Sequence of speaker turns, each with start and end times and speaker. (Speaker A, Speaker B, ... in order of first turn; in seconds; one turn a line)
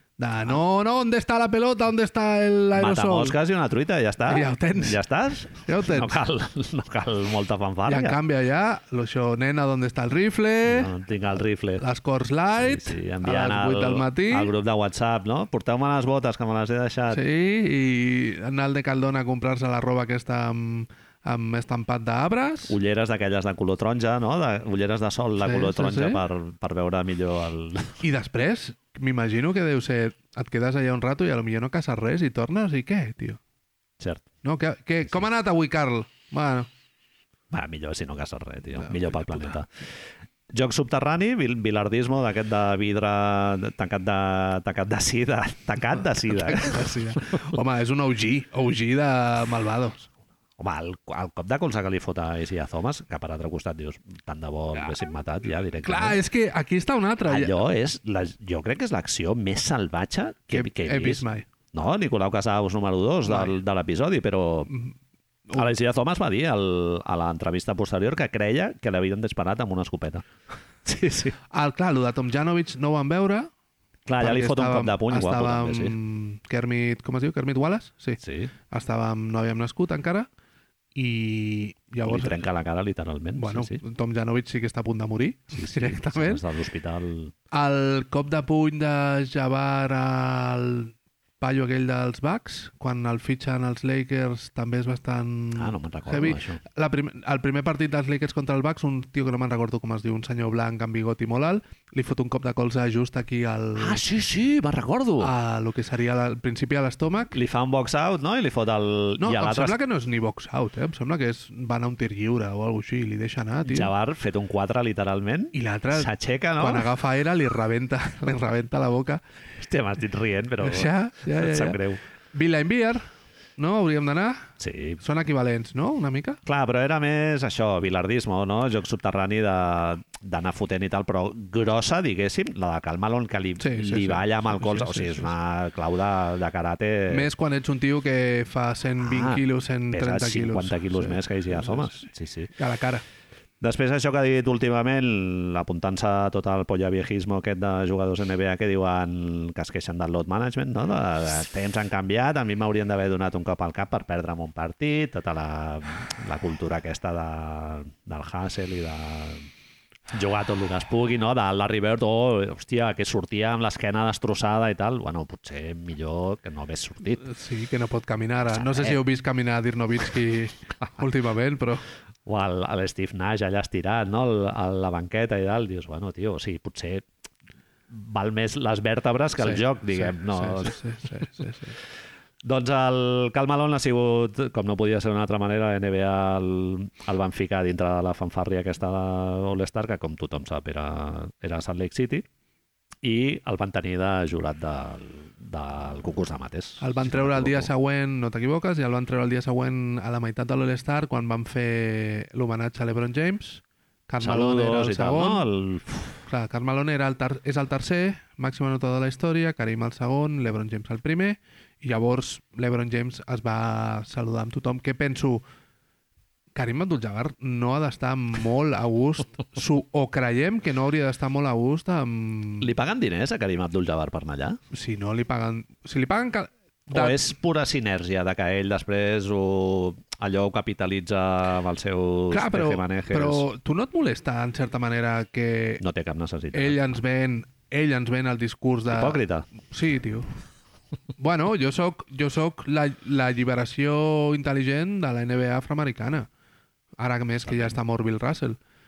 Speaker A: 0.2-3.4
Speaker B: 2.8-8.2
Speaker A: 4.2-5.0
Speaker A: 5.6-6.2
Speaker A: 7.9-10.9
Speaker B: 10.7-11.8
Speaker A: 11.8-14.5
Speaker B: 12.6-17.2
Speaker A: 17.1-22.8
Speaker B: 22.7-28.0
Speaker A: 25.4-26.2
Speaker A: 28.0-33.4
Speaker B: 34.0-34.2
Speaker A: 34.4-36.7
Speaker B: 37.5-39.7
Speaker A: 38.8-39.5
Speaker B: 40.5-46.9
Speaker A: 46.3-50.1
Speaker B: 50.6-56.2
Speaker A: 55.8-57.6
Speaker B: 57.2-64.7
Speaker A: 60.5-61.5
Speaker A: 63.3-63.5
Speaker A: 64.7-64.9
Speaker B: 65.5-70.2
Speaker B: 70.8-71.4
Speaker A: 71.5-73.5
Speaker B: 74.1-75.9
Speaker A: 74.2-80.3
Speaker B: 78.2-78.5
Speaker A: 80.9-82.4
Speaker B: 82.0-83.8
Speaker A: 83.3-86.4
Speaker B: 85.5-87.3
Speaker A: 87.5-104.0
Speaker B: 95.5-96.6
Speaker B: 103.8-105.3
Speaker A: 105.2-107.3
Speaker B: 107.3-109.8
Speaker A: 109.2-113.9
Speaker B: 113.6-116.9
Speaker A: 115.5-119.2
Speaker B: 119.6-122.0
Speaker A: 120.6-121.8
Speaker A: 122.3-123.0
Speaker A: 123.6-126.4
Speaker B: 124.6-125.0
Speaker B: 126.4-137.3
Speaker A: 133.6-135.3
Speaker A: 137.1-143.0
Speaker B: 139.0-142.5
Speaker B: 143.6-159.4
Speaker B: 160.1-167.3
Speaker A: 167.2-171.8
Speaker B: 168.5-169.0
Speaker B: 172.2-177.1
Speaker B: 177.9-180.8
Speaker A: 179.4-181.8
Speaker B: 182.4-192.2
Speaker B: 193.0-197.7
Speaker A: 196.8-205.4
Speaker B: 204.2-206.2
Speaker A: 206.3-215.4
Speaker A: 216.5-222.7
Speaker B: 222.6-224.6
Speaker A: 224.7-227.2
Speaker B: 226.9-233.4
Speaker A: 232.3-235.8
Speaker B: 235.8-236.8
Speaker A: 236.5-240.3
Speaker B: 238.9-239.5
Speaker A: 241.2-246.3
Speaker A: 247.0-248.6
Speaker B: 247.4-247.7